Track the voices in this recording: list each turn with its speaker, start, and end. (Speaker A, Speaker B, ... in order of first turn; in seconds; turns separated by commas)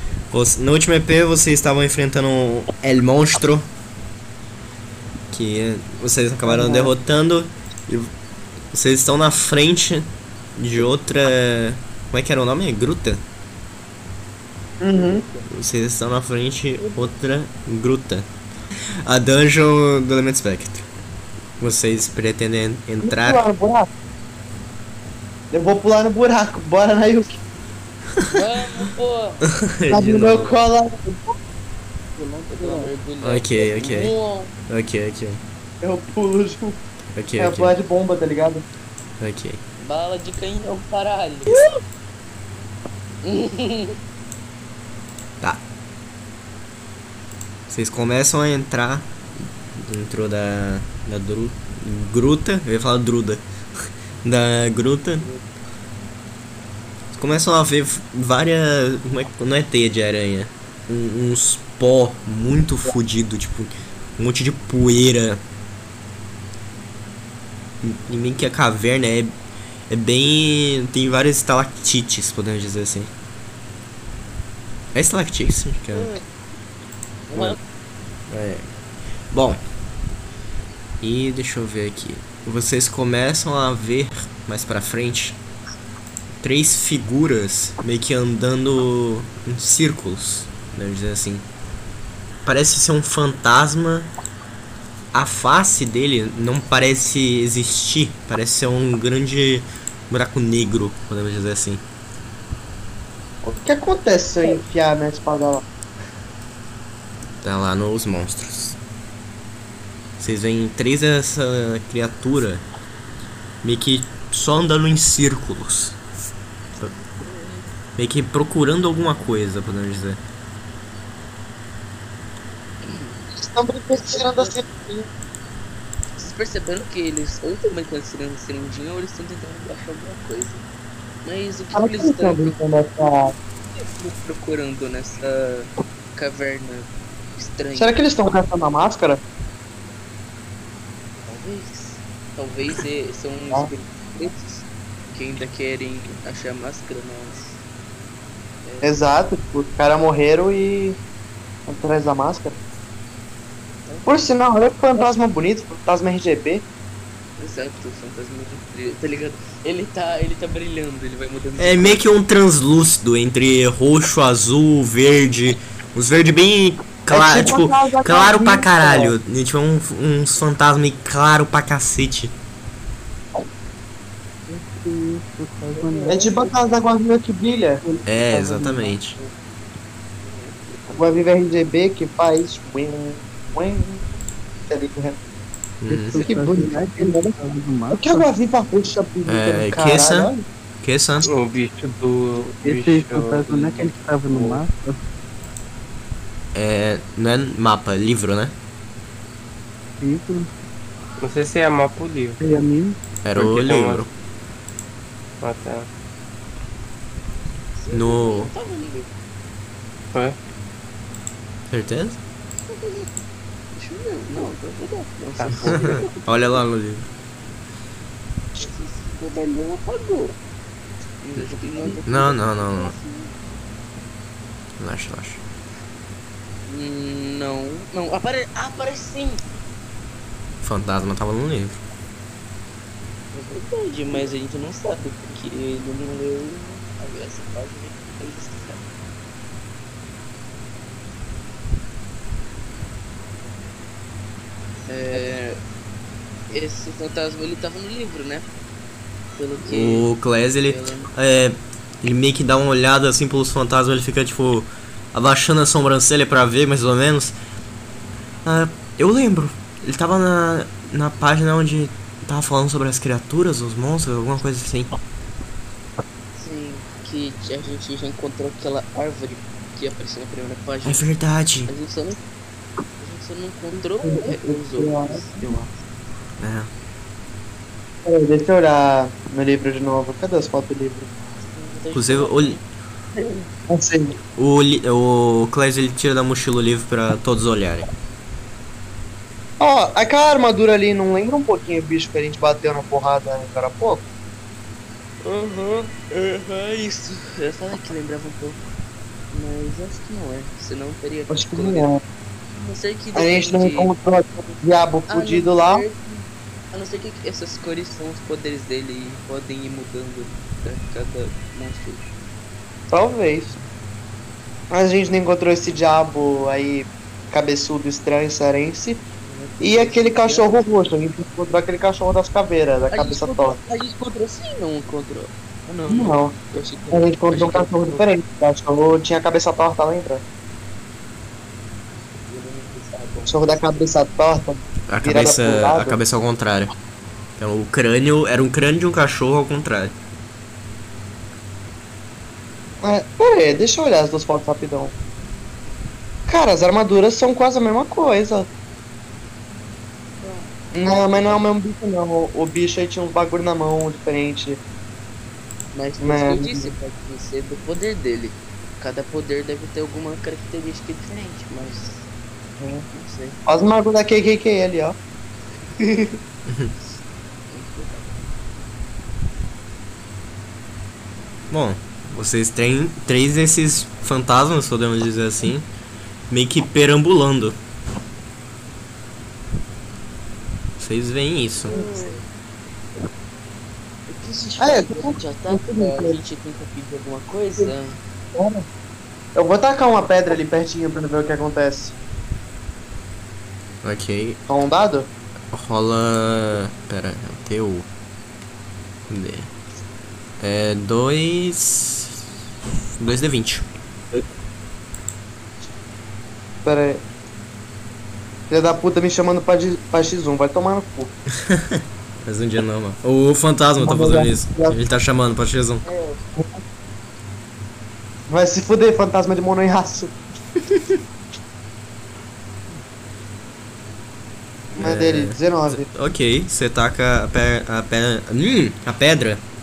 Speaker A: 0.3-3.7, Speaker A: 5.3-8.1, Speaker B: 6.5-6.9, Speaker A: 8.7-13.2, Speaker B: 14.8-15.2, Speaker C: 14.9-15.5, Speaker A: 15.5-18.3, Speaker A: 19.1-20.9, Speaker A: 21.6-23.4, Speaker B: 23.0-23.9, Speaker B: 25.5-27.4, Speaker C: 28.3-29.4, Speaker A: 29.5-30.5, Speaker B: 29.9-31.2, Speaker C: 30.1-30.7, Speaker C: 32.2-34.5, Speaker B: 32.6-32.9, Speaker A: 33.2-34.1, Speaker A: 34.7-35.4, Speaker B: 35.8-36.8, Speaker A: 37.1-37.8, Speaker B: 37.4-38.6, Speaker A: 39.2-39.6, Speaker C: 39.8-41.7, Speaker C: 43.2-44.0, Speaker A: 47.7-49.1, Speaker A: 49.8-53.4, Speaker A: 54.2-55.2, Speaker A: 57.1-65.4, Speaker A: 67.8-69.3, Speaker A: 69.9-73.1, Speaker A: 74.9-76.2, Speaker C: 77.3-77.6, Speaker A: 77.3-77.6, Speaker A: 78.3-78.7, Speaker A: 79.3-79.6, Speaker A: 81.0-85.4, Speaker A: 86.4-91.5, Speaker A: 92.5-94.1, Speaker A: 95.1-101.8, Speaker B: 103.4-105.6, Speaker A: 107.4-108.8, Speaker A: 110.2-112.6, Speaker A: 113.6-116.0, Speaker C: 117.2-117.6, Speaker A: 118.0-120.2, Speaker C: 122.8-123.2, Speaker B: 123.4-125.1, Speaker C: 124.0-124.7, Speaker C: 126.2-130.6, Speaker C: 131.2-132.6, Speaker B: 131.7-133.3, Speaker C: 133.7-138.0, Speaker B: 137.7-139.2, Speaker C: 141.2-147.6, Speaker C: 148.6-149.0, Speaker B: 148.8-151.0, Speaker B: 151.7-152.6, Speaker C: 153.9-154.3, Speaker B: 154.1-156.6, Speaker C: 157.4-162.1, Speaker A: 161.6-172.3, Speaker B: 167.1-169.1, Speaker D: 174.5-176.4, Speaker C: 175.7-176.5, Speaker B: 176.1-177.8, Speaker D: 177.8-179.2, Speaker A: 178.1-179.2, Speaker C: 180.2-180.6, Speaker B: 180.9-184.1, Speaker B: 184.7-185.2, Speaker A: 185.8-186.2, Speaker D: 185.9-188.3, Speaker B: 186.2-187.4, Speaker B: 187.9-190.4, Speaker A: 189.3-190.3, Speaker A: 190.8-191.3, Speaker E: 191.2-194.7, Speaker D: 192.6-195.0, Speaker A: 196.5-198.5, Speaker D: 200.0-200.5, Speaker E: 201.2-202.4, Speaker D: 202.4-203.0, Speaker A: 203.2-204.1, Speaker E: 203.3-204.1, Speaker E: 205.4-205.9, Speaker C: 207.8-209.1, Speaker A: 207.9-208.5, Speaker A: 211.7-212.2, Speaker C: 212.7-213.1, Speaker C: 213.7-216.6, Speaker E: 215.4-215.9, Speaker A: 215.7-217.1, Speaker C: 218.5-220.3, Speaker C: 221.2-223.3, Speaker A: 222.1-222.9, Speaker A: 224.8-225.4, Speaker C: 226.7-229.4, Speaker A: 230.6-231.8, Speaker C: 233.3-238.8, Speaker C: 244.9-245.6, Speaker C: 246.5-248.5, Speaker C: 249.3-250.1, Speaker A: 249.7-257.4, Speaker C: 250.7-251.1, Speaker A: 258.4-264.9, Speaker C: 266.4-271.1, Speaker A: 270.9-271.7, Speaker C: 271.7-272.2, Speaker C: 273.0-275.7, Speaker B: 274.0-275.3, Speaker A: 276.4-276.7, Speaker B: 278.1-281.1, Speaker C: 281.4-282.6, Speaker A: 281.9-282.6, Speaker C: 283.1-283.5, Speaker B: 283.7-284.2, Speaker A: 284.4-287.9, Speaker B: 289.6-294.0, Speaker C: 295.2-298.6, Speaker C: 299.3-301.9, Speaker B: 301.3-302.0, Speaker C: 302.6-303.9, Speaker B: 303.1-305.8, Speaker C: 305.1-312.1, Speaker B: 312.9-313.6, Speaker B: 314.7-319.0, Speaker C: 319.2-320.7, Speaker B: 319.6-323.6, Speaker C: 322.9-325.3, Speaker B: 325.7-326.3, Speaker C: 325.9-328.1, Speaker B: 326.9-330.2, Speaker C: 332.3-333.6, Speaker B: 333.2-336.0, Speaker A: 334.9-336.7, Speaker A: 337.4-339.9, Speaker B: 342.8-344.9, Speaker B: 346.3-348.5, Speaker C: 350.2-351.5, Speaker B: 350.7-354.6, Speaker C: 355.7-362.1, Speaker B: 356.0-356.7, Speaker C: 362.8-363.4, Speaker B: 363.5-365.0, Speaker A: 366.5-366.7, Speaker C: 367.5-368.2, Speaker A: 371.5-375.7, Speaker A: 376.3-377.6, Speaker A: 380.8-381.8, Speaker C: 381.6-382.2, Speaker B: 381.7-382.1, Speaker C: 384.1-388.0, Speaker B: 384.6-386.2, Speaker B: 388.3-388.6, Speaker B: 389.4-391.9, Speaker A: 393.8-394.4, Speaker B: 394.5-395.1, Speaker A: 395.5-397.9, Speaker A: 399.1-399.5, Speaker A: 400.4-402.2, Speaker A: 403.0-403.6, Speaker B: 406.6-407.0, Speaker B: 408.5-411.1, Speaker A: 411.4-415.8, Speaker B: 413.8-414.8, Speaker C: 415.9-416.2, Speaker B: 415.9-416.6, Speaker B: 418.3-420.1, Speaker B: 424.7-425.9, Speaker A: 424.8-429.4